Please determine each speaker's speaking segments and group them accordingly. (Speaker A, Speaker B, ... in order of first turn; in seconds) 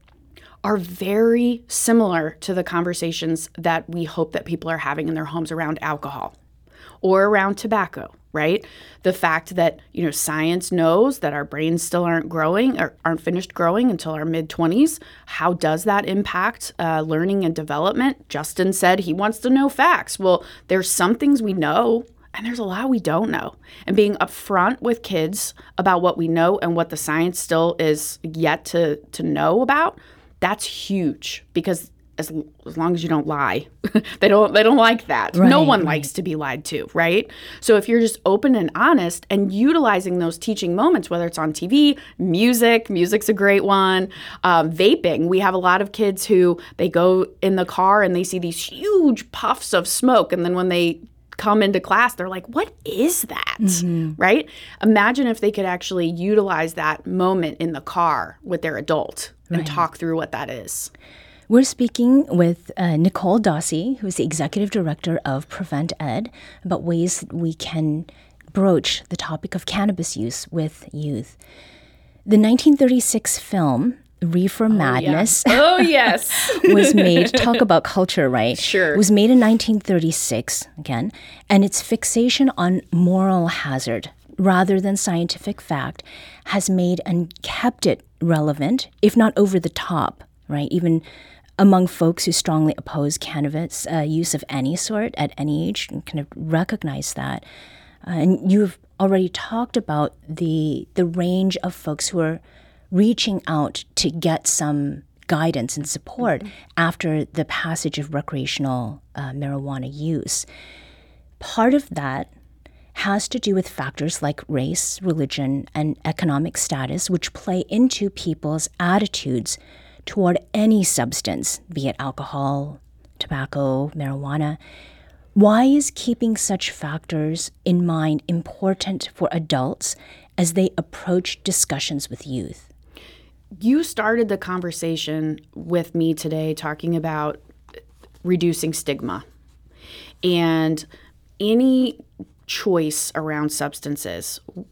Speaker A: 0.6-6.3, 7.0-60.9, 74.7-77.4, 78.5-79.0, 133.6-137.4, 138.2-139.2, 140.2-140.9, 141.4-144.4
Speaker B: 35.3-36.1, 53.6-54.2, 59.5-59.8, 61.5-71.4, 72.2-75.9, 76.4-91.0, 91.6-97.4, 98.0-102.4, 102.9-110.5, 111.4-112.3, 112.9-124.6, 125.3-132.7